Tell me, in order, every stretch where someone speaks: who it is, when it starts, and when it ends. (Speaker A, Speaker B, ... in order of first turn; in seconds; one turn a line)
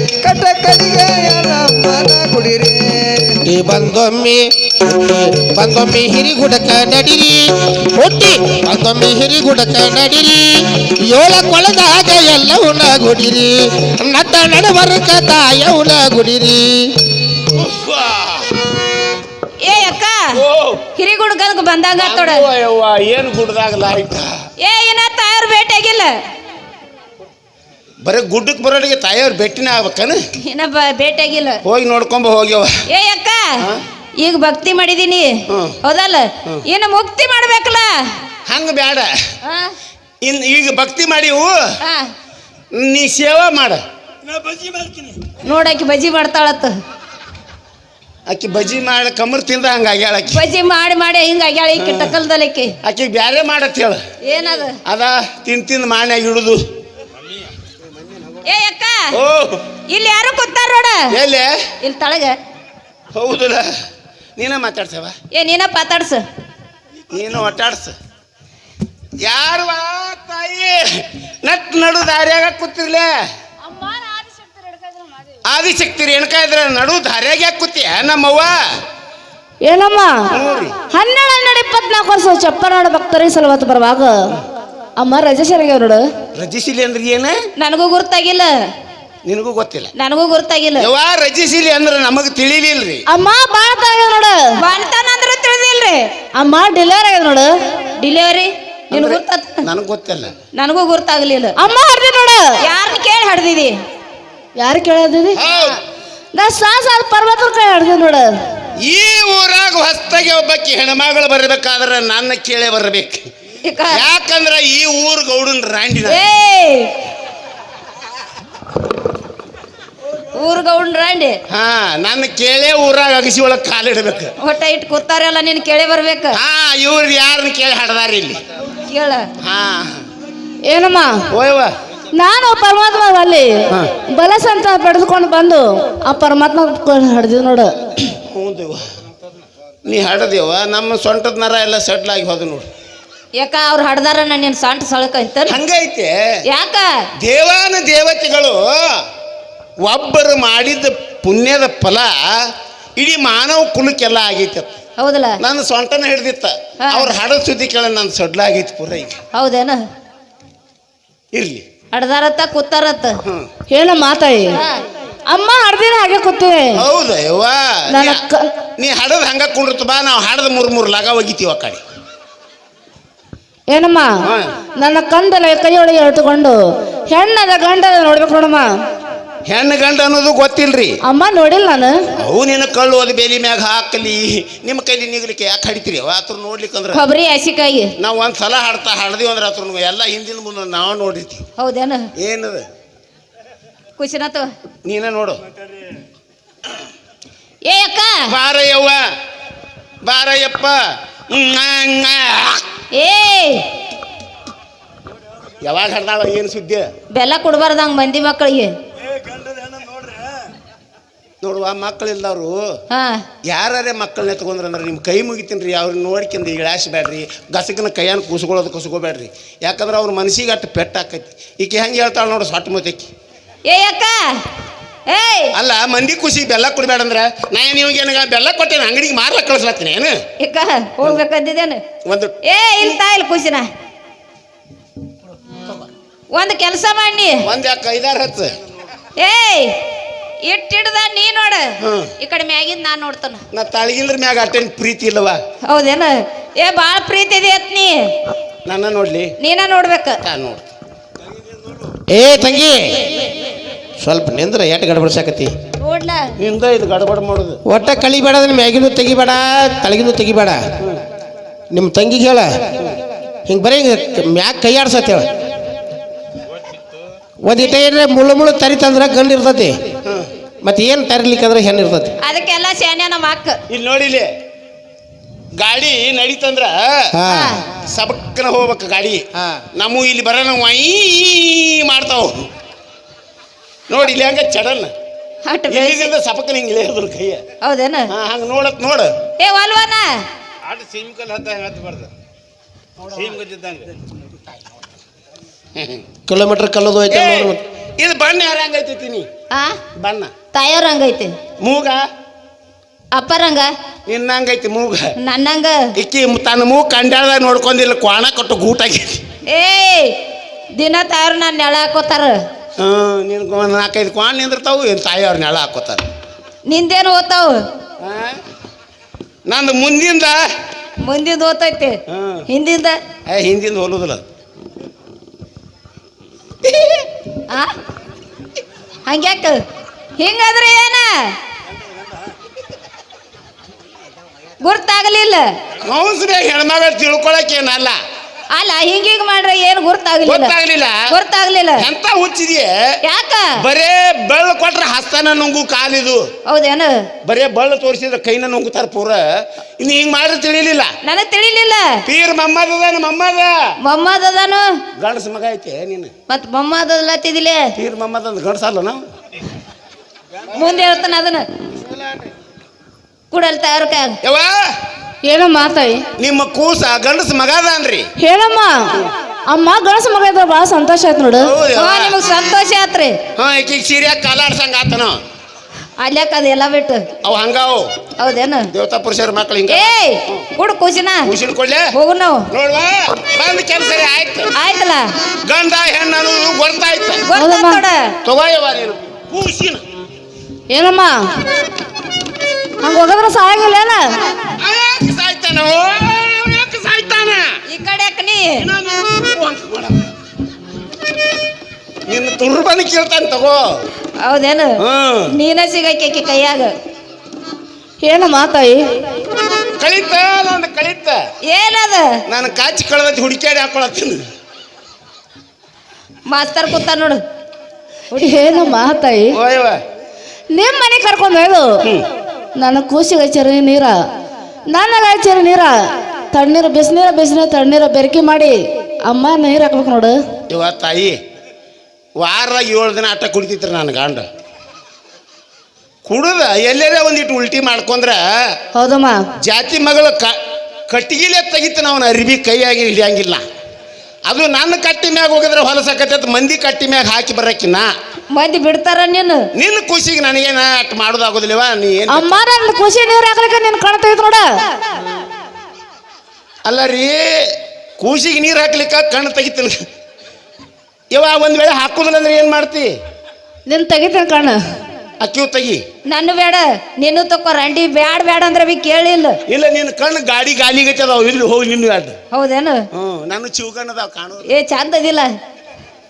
Speaker A: 0.2-3.4
Speaker B: 3.5-16.9
Speaker C: 17.5-18.5
Speaker D: 19.6-20.3
Speaker C: 20.3-20.8
Speaker D: 21.0-22.5
Speaker C: 22.0-24.3
Speaker D: 24.6-26.2
Speaker C: 28.0-30.2
Speaker D: 30.4-31.6
Speaker C: 31.6-32.8
Speaker D: 32.9-33.6
Speaker D: 34.2-38.1
Speaker C: 35.5-35.8
Speaker C: 38.5-39.1
Speaker D: 39.5-39.8
Speaker C: 40.2-41.7
Speaker D: 41.8-42.1
Speaker C: 42.7-43.8
Speaker C: 44.4-45.2
Speaker D: 45.4-46.8
Speaker C: 48.3-50.4
Speaker D: 50.3-52.7
Speaker C: 51.8-52.1
Speaker C: 52.8-54.0
Speaker D: 54.2-54.8
Speaker C: 54.9-56.6
Speaker D: 58.5-59.2
Speaker C: 59.1-59.6
Speaker D: 59.9-61.1
Speaker C: 61.1-61.6
Speaker D: 61.8-62.4
Speaker C: 63.1-63.7
Speaker C: 64.4-65.2
Speaker D: 65.3-66.2
Speaker C: 67.1-68.0
Speaker C: 69.2-73.1
Speaker E: 73.7-75.4
Speaker C: 75.5-78.6
Speaker E: 79.7-80.3
Speaker C: 80.3-80.8
Speaker E: 80.9-84.3
Speaker E: 85.0-86.0
Speaker C: 86.3-87.4
Speaker D: 87.6-88.5
Speaker C: 89.3-89.9
Speaker D: 90.0-90.9
Speaker C: 90.8-93.0
Speaker E: 93.1-94.6
Speaker D: 94.6-96.1
Speaker E: 96.4-97.5
Speaker D: 98.0-99.7
Speaker C: 98.9-100.3
Speaker D: 100.6-101.5
Speaker E: 101.6-102.6
Speaker D: 102.6-103.8
Speaker E: 104.6-105.4
Speaker C: 105.3-105.8
Speaker E: 106.3-108.3
Speaker C: 108.8-113.3
Speaker D: 113.7-114.0
Speaker C: 113.9-116.2
Speaker D: 116.0-116.9
Speaker D: 120.3-121.4
Speaker C: 121.5-124.3
Speaker D: 124.4-126.4
Speaker C: 126.3-128.4
Speaker D: 128.9-129.3
Speaker C: 129.4-130.0
Speaker E: 130.7-131.2
Speaker C: 131.3-131.7
Speaker E: 132.1-137.7
Speaker C: 138.1-138.9
Speaker C: 139.9-142.7
Speaker D: 143.4-145.6
Speaker C: 145.5-146.1
Speaker D: 146.5-146.9
Speaker C: 147.2-149.0
Speaker C: 149.8-154.8
Speaker D: 155.0-155.4
Speaker C: 155.4-159.2
Speaker D: 156.8-157.1
Speaker D: 159.3-159.8
Speaker C: 161.3-161.6
Speaker D: 161.9-163.2
Speaker E: 163.7-164.6
Speaker D: 164.5-164.8
Speaker E: 165.3-166.8
Speaker C: 166.8-168.2
Speaker E: 167.9-168.5
Speaker C: 168.8-171.8
Speaker E: 173.7-174.1
Speaker C: 174.2-174.5
Speaker E: 174.8-176.6
Speaker E: 177.1-178.7
Speaker C: 179.5-181.0
Speaker E: 181.1-182.1
Speaker C: 182.2-187.0
Speaker D: 186.9-187.9
Speaker C: 188.0-191.4
Speaker D: 191.6-192.1
Speaker C: 192.2-192.7
Speaker D: 194.0-194.5
Speaker C: 194.8-195.4
Speaker D: 197.7-198.3
Speaker C: 198.3-199.0
Speaker C: 200.0-202.6
Speaker D: 202.9-203.7
Speaker C: 205.6-206.9
Speaker D: 207.1-208.8
Speaker C: 209.2-210.2
Speaker C: 211.4-212.8
Speaker D: 212.9-213.2
Speaker C: 213.5-223.1
Speaker D: 223.7-224.4
Speaker D: 225.1-225.5
Speaker C: 225.5-230.2
Speaker D: 230.4-231.8
Speaker C: 232.1-232.4
Speaker D: 232.4-233.7
Speaker D: 236.3-237.5
Speaker C: 237.4-238.6
Speaker D: 239.2-239.8
Speaker D: 240.4-243.4
Speaker C: 241.8-242.1
Speaker C: 243.5-245.4
Speaker D: 245.7-248.1
Speaker C: 248.7-249.3
Speaker D: 249.4-250.2
Speaker C: 250.2-250.7
Speaker B: 252.1-253.2
Speaker B: 254.0-255.6
Speaker D: 255.8-256.3
Speaker C: 256.4-257.6
Speaker B: 257.7-260.7
Speaker B: 261.7-262.7
Speaker B: 263.5-265.3
Speaker B: 267.4-269.8
Speaker B: 270.6-272.1
Speaker D: 272.2-273.6
Speaker C: 273.7-274.3
Speaker C: 275.6-277.1
Speaker B: 277.1-277.6
Speaker D: 277.3-277.6
Speaker C: 277.8-279.2
Speaker B: 279.4-279.6
Speaker C: 279.8-282.5
Speaker C: 283.9-284.9
Speaker D: 285.5-286.1
Speaker C: 285.7-287.4
Speaker D: 287.6-288.1
Speaker C: 288.1-289.1
Speaker D: 289.4-290.2
Speaker C: 290.6-292.1
Speaker C: 293.0-293.9
Speaker C: 295.8-296.0
Speaker B: 296.3-297.6
Speaker C: 297.1-299.3
Speaker D: 299.5-299.8
Speaker C: 300.0-300.3
Speaker D: 300.5-301.4
Speaker C: 301.6-302.1
Speaker D: 303.1-303.7
Speaker C: 304.1-305.1
Speaker D: 305.2-305.9
Speaker C: 306.0-309.2
Speaker D: 309.5-310.1
Speaker D: 310.8-312.4
Speaker C: 312.8-316.1
Speaker D: 316.7-317.7
Speaker C: 318.0-318.4
Speaker C: 319.5-320.4
Speaker D: 321.0-322.0
Speaker C: 322.1-322.5
Speaker D: 322.5-323.0
Speaker C: 323.3-324.2
Speaker D: 327.5-327.8
Speaker D: 329.1-329.6
Speaker D: 330.2-331.4
Speaker D: 334.6-335.6
Speaker C: 335.8-338.0
Speaker D: 338.5-340.5
Speaker C: 340.2-341.1
Speaker D: 341.1-341.9
Speaker C: 341.8-342.7
Speaker D: 343.1-343.6
Speaker C: 343.6-346.3
Speaker D: 346.5-347.1
Speaker C: 347.2-350.9
Speaker D: 351.1-352.0
Speaker C: 352.1-353.6
Speaker D: 353.8-354.8
Speaker C: 355.0-356.1
Speaker D: 356.3-357.7
Speaker C: 357.8-359.0
Speaker D: 360.5-361.5
Speaker C: 361.8-362.3
Speaker D: 363.3-364.2
Speaker C: 364.2-364.8
Speaker E: 365.3-366.1
Speaker C: 366.2-368.1
Speaker E: 368.2-369.0
Speaker E: 369.5-371.5
Speaker C: 371.4-372.2
Speaker D: 371.8-373.2
Speaker C: 373.4-375.2
Speaker D: 376.0-377.1
Speaker C: 377.2-377.9
Speaker D: 378.2-378.7
Speaker C: 378.7-380.4
Speaker D: 379.7-381.3
Speaker C: 381.2-381.9
Speaker D: 381.9-382.5
Speaker C: 382.5-384.5
Speaker D: 384.6-385.1
Speaker C: 385.4-387.2
Speaker D: 387.3-388.1
Speaker E: 387.3-387.8
Speaker C: 388.2-389.8
Speaker E: 390.7-391.2
Speaker E: 392.8-394.1
Speaker C: 394.6-397.6
Speaker D: 397.7-398.7
Speaker C: 398.6-400.1
Speaker C: 402.1-403.7
Speaker D: 404.2-406.7
Speaker C: 404.8-405.4
Speaker E: 408.0-408.8
Speaker C: 409.8-411.2
Speaker D: 411.5-412.2
Speaker C: 412.3-414.2
Speaker D: 416.3-417.2
Speaker D: 418.1-418.8
Speaker E: 418.1-419.4
Speaker C: 419.3-419.8
Speaker E: 420.5-421.8
Speaker E: 422.6-424.0
Speaker E: 424.7-425.8
Speaker E: 426.3-430.2
Speaker C: 430.5-431.2
Speaker C: 432.2-434.3
Speaker C: 436.1-438.5
Speaker E: 438.8-439.2
Speaker C: 439.4-440.4
Speaker C: 440.9-443.4
Speaker C: 444.3-447.9
Speaker D: 448.3-449.5
Speaker C: 449.6-452.3
Speaker E: 452.1-454.5
Speaker C: 456.6-459.8
Speaker C: 461.1-462.9
Speaker E: 463.7-464.6
Speaker C: 465.2-465.8
Speaker D: 466.1-469.4
Speaker C: 469.5-472.2
Speaker D: 472.3-472.8
Speaker C: 472.9-474.5
Speaker D: 474.5-475.3